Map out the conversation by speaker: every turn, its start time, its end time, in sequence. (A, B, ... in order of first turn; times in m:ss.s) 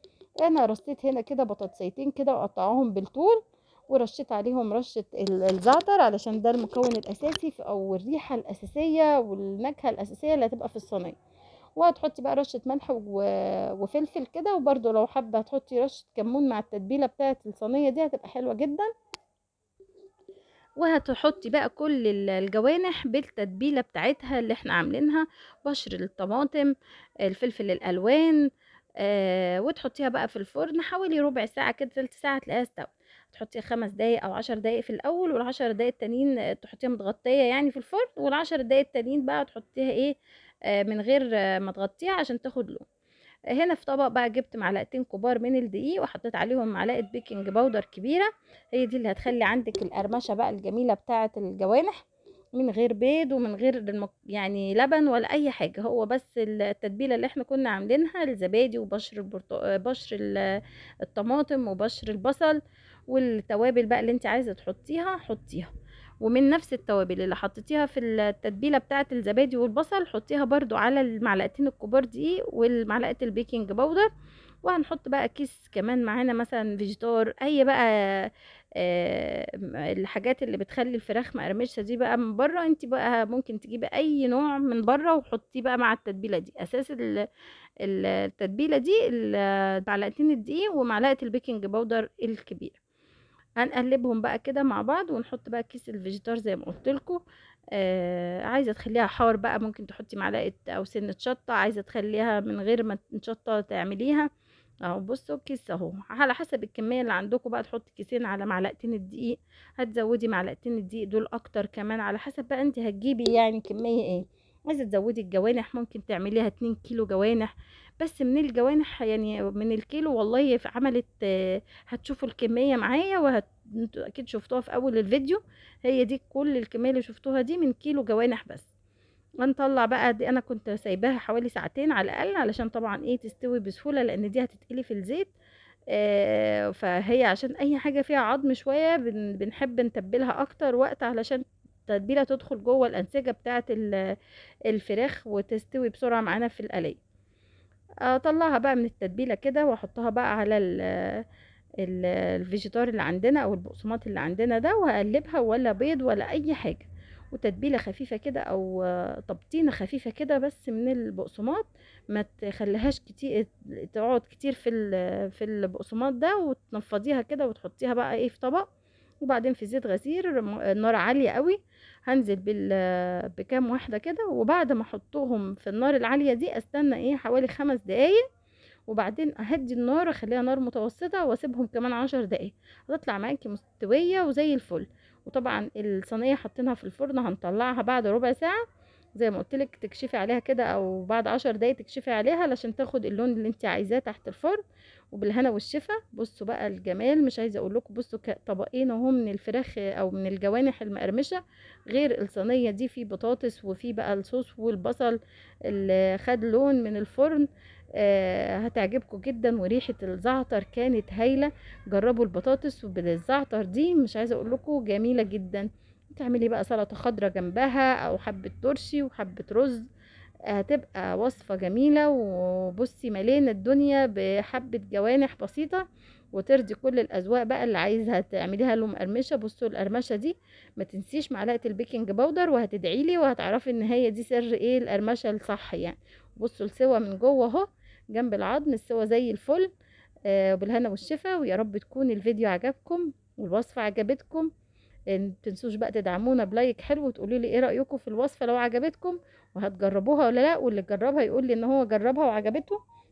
0:00.4-0:11.2 A
0:11.8-0:18.9 A
0:20.8-0:26.7 A
0:27.2-0:28.4 A
0:29.0-0:40.1 A
0:40.7-0:42.8 A
0:43.5-0:52.0 A
0:52.6-1:02.6 A
1:03.1-1:05.7 A
1:06.2-1:14.1 A
1:14.6-1:27.2 A
1:27.8-1:32.8 A
1:33.6-1:37.2 A
1:37.7-1:44.3 A
1:44.9-2:08.7 A
2:09.4-2:15.3 A
2:15.9-2:24.0 A
2:24.7-2:27.0 A
2:28.1-2:31.2 A
2:31.8-2:48.6 A
2:49.2-2:58.2 A
2:58.9-3:08.6 A
3:09.2-3:14.6 A
3:15.1-3:27.5 A
3:28.0-3:39.8 A
3:40.5-3:59.7 A
4:00.3-4:04.5 A
4:05.1-4:12.8 A